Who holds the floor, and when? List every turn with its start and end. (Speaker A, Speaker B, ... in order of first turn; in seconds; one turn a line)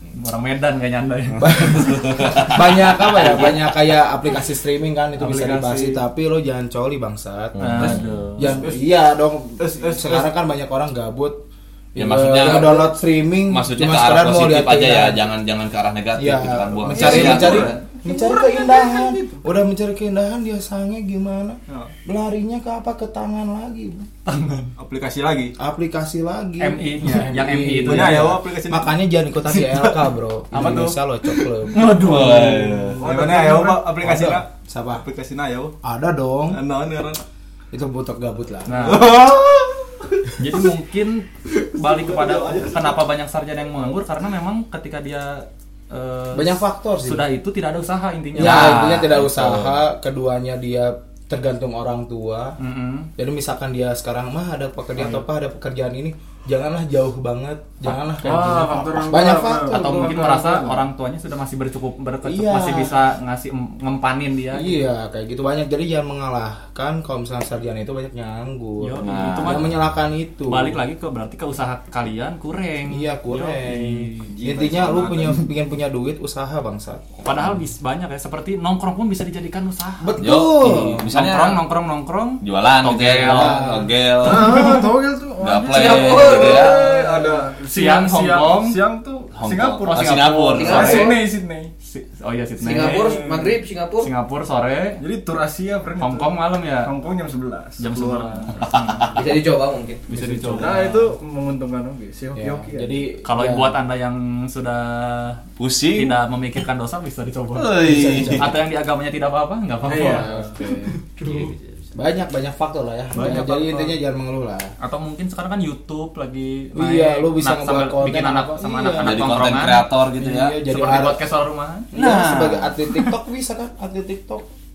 Speaker A: 0.1-1.8
Speaker B: 1.3-3.8
Speaker C: 1.4-11.4
Speaker D: 5.2-6.0
Speaker B: 7.5-8.3
Speaker A: 7.6-8.6
Speaker D: 9.6-10.2
Speaker C: 11.9-15.2
Speaker B: 12.0-12.9
Speaker B: 13.5-17.8
Speaker C: 16.2-24.1
Speaker D: 16.9-19.4
Speaker A: 17.0-17.7
Speaker E: 21.7-21.9
Speaker A: 24.2-24.7
Speaker E: 24.8-25.5
Speaker C: 25.6-35.0
Speaker A: 26.6-28.4
Speaker E: 27.8-28.9
Speaker A: 30.5-31.0
Speaker A: 31.7-33.5
Speaker B: 31.8-33.0
Speaker E: 33.0-35.7
Speaker D: 33.0-33.5
Speaker C: 35.8-36.6
Speaker E: 36.5-37.2
Speaker C: 37.7-39.2
Speaker A: 38.7-39.1
Speaker E: 38.9-40.3
Speaker A: 40.4-49.2
Speaker E: 41.6-43.0
Speaker C: 46.3-47.2
Speaker C: 48.4-52.6
Speaker B: 48.4-49.7
Speaker A: 52.6-53.1
Speaker C: 53.2-60.4
Speaker A: 55.0-55.2
Speaker D: 58.2-60.8
Speaker A: 58.2-59.0
Speaker A: 59.6-64.8
Speaker C: 62.2-63.0
Speaker C: 64.5-70.8
Speaker A: 68.8-69.7
Speaker B: 69.0-69.8
Speaker A: 70.5-74.3
Speaker C: 72.9-77.5
Speaker D: 74.3-75.5
Speaker A: 77.2-83.6
Speaker C: 80.0-81.1
Speaker B: 80.2-81.6
Speaker B: 82.4-84.8
Speaker C: 83.1-83.9
Speaker D: 84.2-91.7
Speaker B: 85.4-86.8
Speaker F: 85.7-87.0
Speaker A: 87.7-88.8
Speaker B: 89.4-91.1
Speaker A: 89.9-91.2
Speaker F: 90.5-91.2
Speaker A: 91.8-93.2
Speaker F: 92.6-94.1
Speaker D: 92.7-93.5
Speaker A: 94.0-95.0
Speaker D: 95.0-98.5
Speaker A: 96.0-96.9
Speaker A: 97.8-99.3
Speaker F: 99.1-100.0
Speaker A: 100.1-101.1
Speaker C: 100.1-100.7
Speaker D: 100.2-103.0
Speaker C: 102.3-103.7
Speaker A: 103.2-105.4
Speaker B: 105.6-106.1
Speaker A: 106.0-107.8
Speaker B: 107.5-108.5
Speaker C: 107.8-108.6
Speaker A: 108.3-110.3
Speaker D: 109.8-111.4
Speaker C: 109.9-111.0
Speaker F: 111.2-111.9
Speaker C: 111.9-114.7
Speaker A: 113.1-114.0
Speaker A: 114.8-119.9
Speaker C: 116.8-119.4
Speaker B: 119.0-120.6
Speaker C: 120.1-121.2
Speaker A: 120.7-121.9
Speaker C: 121.9-124.5
Speaker B: 121.9-122.8